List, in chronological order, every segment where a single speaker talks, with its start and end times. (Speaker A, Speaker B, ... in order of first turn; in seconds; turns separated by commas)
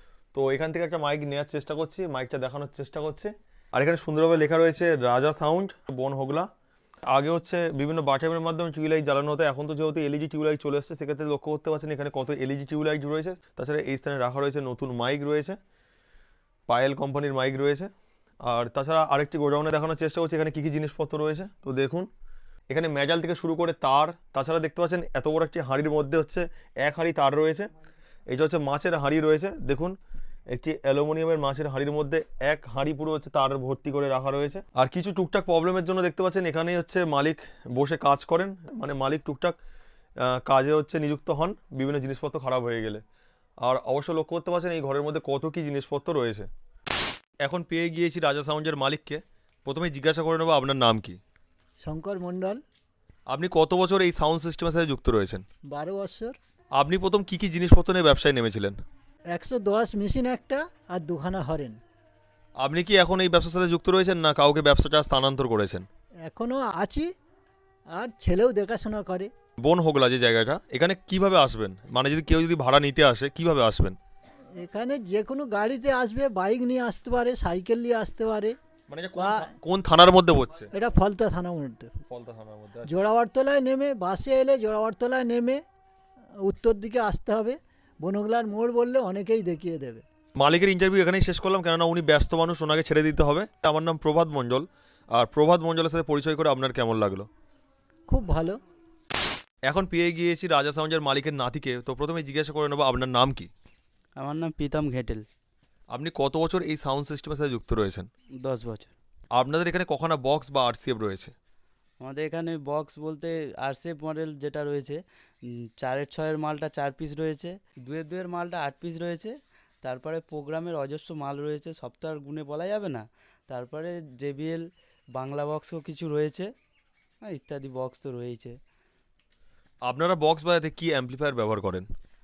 Speaker A: 0.3-6.5, Speaker A: 7.1-15.6, Speaker A: 16.7-17.9, Speaker A: 18.4-22.1, Speaker A: 22.7-27.7, Speaker A: 28.3-30.0, Speaker A: 30.5-39.5, Speaker A: 40.2-43.0, Speaker A: 43.6-46.5, Speaker A: 47.4-51.2, Speaker B: 51.8-52.6, Speaker A: 53.3-55.4, Speaker B: 55.7-56.3, Speaker A: 56.8-58.8, Speaker B: 59.3-61.8, Speaker A: 62.6-65.8, Speaker B: 66.2-67.1, Speaker B: 68.0-69.3, Speaker A: 69.6-74.0, Speaker B: 74.6-78.5, Speaker A: 78.9-80.7, Speaker B: 79.2-79.5, Speaker B: 80.7-81.9, Speaker A: 82.1-83.0, Speaker B: 82.9-85.6, Speaker B: 86.4-90.0, Speaker A: 90.4-97.3, Speaker B: 98.1-98.6, Speaker A: 99.7-103.5, Speaker C: 104.2-105.2, Speaker A: 105.9-108.1, Speaker C: 108.4-108.9, Speaker A: 109.3-111.3, Speaker C: 112.0-124.6, Speaker C: 125.2-126.5, Speaker C: 127.2-128.6, Speaker A: 129.8-131.9